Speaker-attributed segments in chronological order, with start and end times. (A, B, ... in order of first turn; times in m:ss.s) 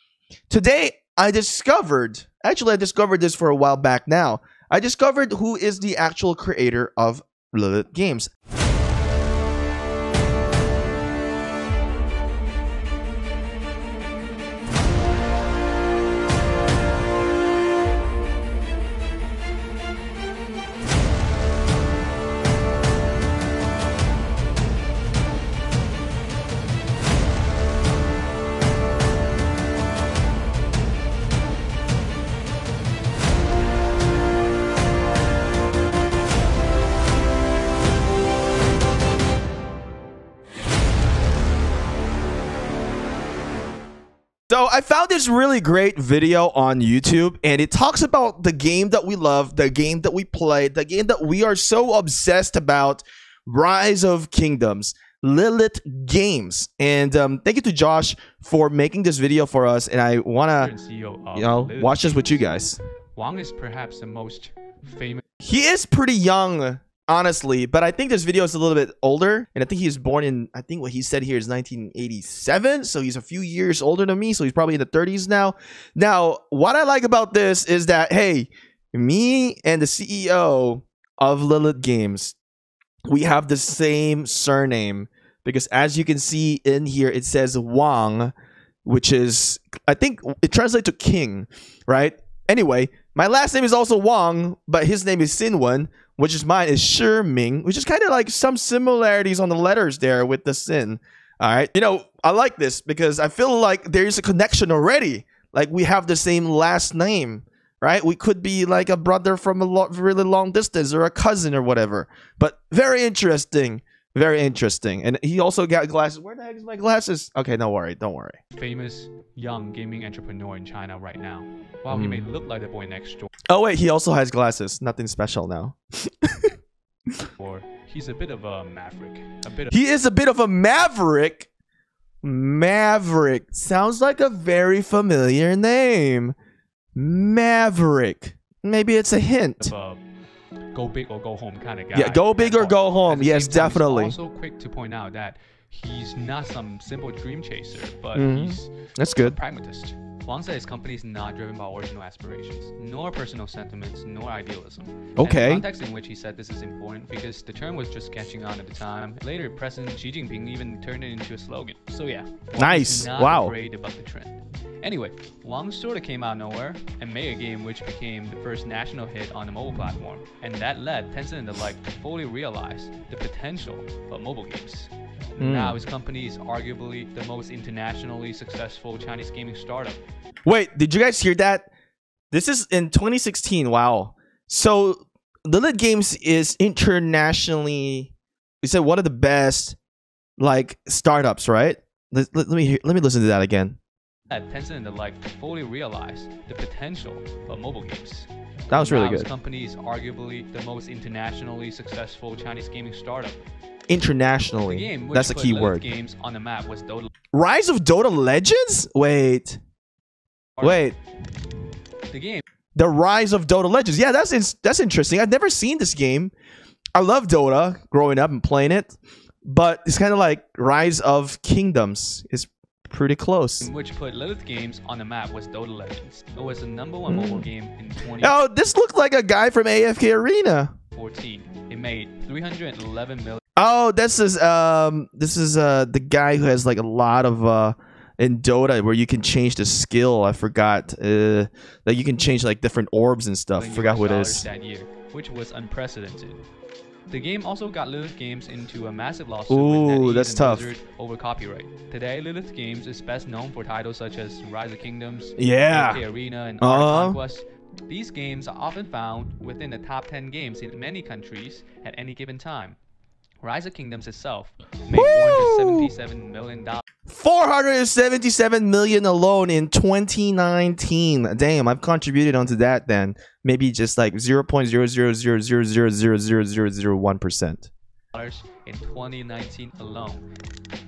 0:00.5-0:08.3 A
0:44.5-1:00.7 A
1:00.6-1:02.6 B
1:01.4-1:02.8 A
1:03.2-1:05.2 B
1:05.4-1:22.4 A
1:23.1-1:28.3 A
1:28.8-1:58.4 A
1:58.5-2:03.3 B
2:01.9-2:02.3 A
2:03.5-2:06.6 A
2:07.4-2:09.7 B
2:09.7-2:11.5 A
2:12.2-2:16.4 A
2:17.0-2:19.7 A
2:19.6-2:20.0 B
2:20.7-3:00.0 B
2:21.9-2:24.2 A
2:28.1-2:29.4 A
2:35.2-2:35.6 A
2:42.6-2:43.6 A
2:55.4-2:55.8 A
3:00.4-3:01.7 A
3:02.3-3:09.8 A
3:10.4-3:13.8 A
3:14.3-3:23.4 B
3:18.7-3:19.3 A
3:23.9-3:25.8 A
3:24.6-3:27.1 B
3:27.3-3:29.6 A
3:30.6-3:30.8 B
3:30.6-3:31.0 A
3:32.1-3:32.4 B
3:32.8-3:36.3 A
3:37.0-3:43.7 A
3:43.6-3:48.4 B
3:47.1-3:47.5 A
3:48.2-3:50.7 A
3:50.9-3:53.4 B
3:53.6-4:04.5 A
4:03.6-4:06.4 B
4:07.1-4:22.8 B
4:09.5-4:10.7 A
4:15.4-4:16.0 A
4:16.6-4:17.2 A
4:23.4-4:26.8 B
4:24.9-4:25.9 A
4:27.1-4:37.7 A
4:38.1-4:40.3 B